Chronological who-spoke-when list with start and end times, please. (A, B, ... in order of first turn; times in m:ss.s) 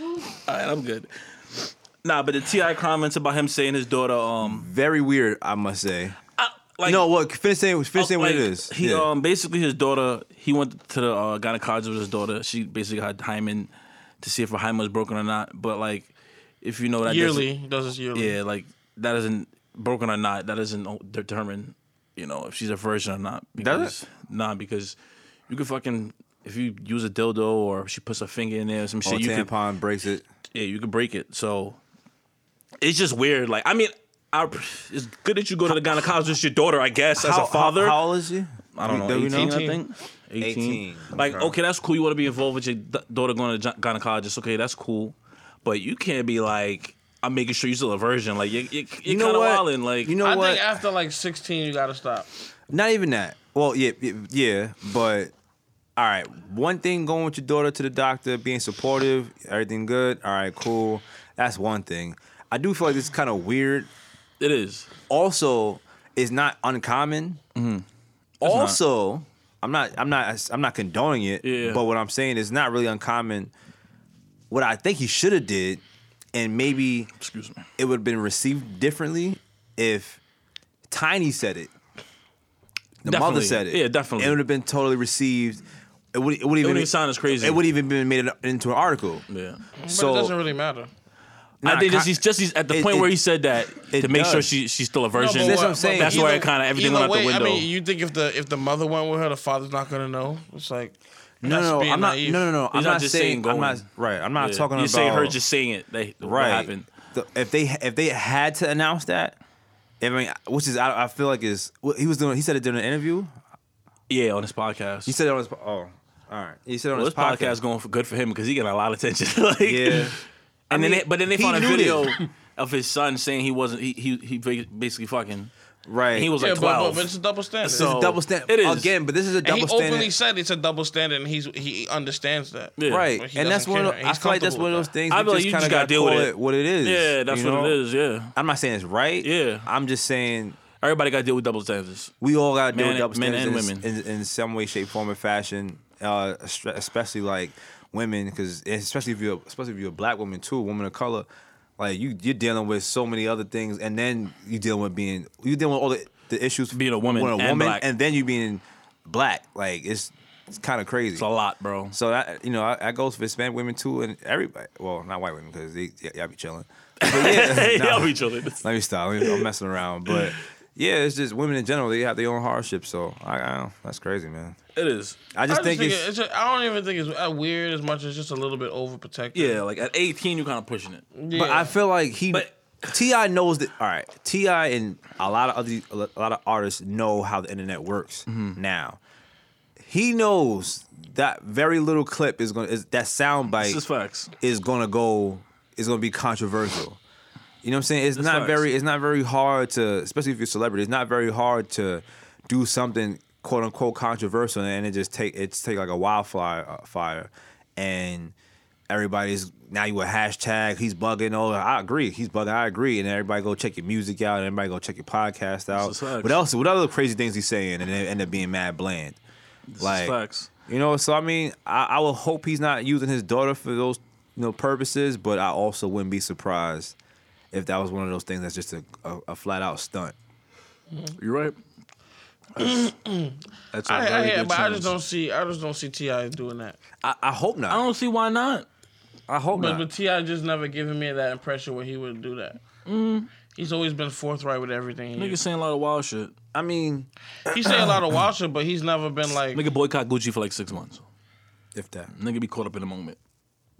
0:00.3-0:04.7 A
0:04.4-0:06.2 B
0:06.4-0:07.1 A
0:06.8-0:09.1 B
0:08.0-0:16.1 A
0:16.6-0:17.5 A
0:17.0-0:18.4 C
0:18.1-0:25.0 A
0:23.6-0:24.0 B
0:25.5-0:29.5 A
0:29.0-0:30.2 B
0:30.5-0:31.8 A
0:32.8-0:38.0 A
0:37.2-0:39.6 B
0:38.8-0:50.1 A
0:39.3-0:39.8 C
0:40.4-0:41.6 B
0:49.1-0:50.8 B
0:50.2-0:52.3 C
0:52.7-0:55.3 B
0:56.0-1:03.9 B
1:04.4-1:04.9 A
1:05.1-1:07.4 B
1:07.6-1:07.8 A
1:08.4-1:13.5 B
1:08.4-1:08.8 A
1:11.4-1:11.8 A
1:14.5-1:15.8 B
1:16.3-1:17.1 B
1:17.2-1:17.6 A
1:17.8-1:20.2 B
1:20.9-1:21.7 B
1:23.0-1:29.2 B
1:23.0-1:24.4 A
1:26.6-1:27.6 A
1:29.3-1:29.6 A
1:29.8-1:30.9 C
1:29.9-1:30.4 B
1:31.6-1:32.2 B
1:31.6-1:37.7 A
1:32.7-1:33.1 B
1:33.9-1:34.5 B
1:35.1-1:42.5 C
1:35.4-1:36.4 B
1:41.4-1:45.4 B
1:42.7-1:43.8 A
1:44.4-1:46.9 A
1:46.2-1:49.4 B
1:50.0-1:53.4 B
1:54.1-1:55.1 A
1:55.1-1:57.6 B
1:56.9-2:05.5 A
1:59.6-2:00.2 B
2:00.7-2:02.1 B
2:05.9-2:06.3 B
2:06.1-2:08.9 A
2:06.4-2:07.9 C
2:07.7-2:10.1 B
2:09.4-2:14.9 C
2:12.8-2:13.1 A
2:12.9-2:17.8 B
2:15.1-2:18.4 A
2:18.4-2:20.6 B
2:19.2-2:19.7 A
2:20.8-2:22.1 A
2:22.2-2:31.3 B
2:22.7-2:23.9 A
2:31.8-2:41.2 B
2:36.7-2:37.8 A
2:41.2-2:41.9 A
2:41.9-2:54.6 B
2:47.0-2:48.6 A
2:49.2-2:49.5 A
2:50.1-2:50.4 A
2:54.8-2:55.2 A
2:55.3-2:56.1 B
2:55.5-2:59.6 C
2:59.3-3:01.0 A
3:01.1-3:01.8 C
3:01.3-3:09.0 B
3:08.3-3:08.6 A
3:09.8-3:13.8 B
3:13.6-3:14.3 A
3:14.4-3:17.0 B
3:17.6-3:28.3 B
3:18.1-3:18.7 A
3:28.9-3:39.2 B
3:35.7-3:36.4 A
3:39.7-3:40.5 A
3:39.8-3:40.2 B
3:40.7-3:47.0 B
3:47.5-3:50.1 B
3:51.2-3:51.6 A
3:52.6-3:56.8 C
3:53.7-3:54.9 B
3:57.0-3:57.8 B
3:57.7-3:58.7 A
3:59.3-3:59.9 B
3:59.5-4:02.6 C
4:02.9-4:03.3 A
4:03.5-4:05.4 C
4:05.1-4:06.3 A
4:06.5-4:08.0 B
4:07.5-4:09.6 C
4:09.5-4:11.0 A
4:11.8-4:12.1 B
4:12.1-4:13.2 A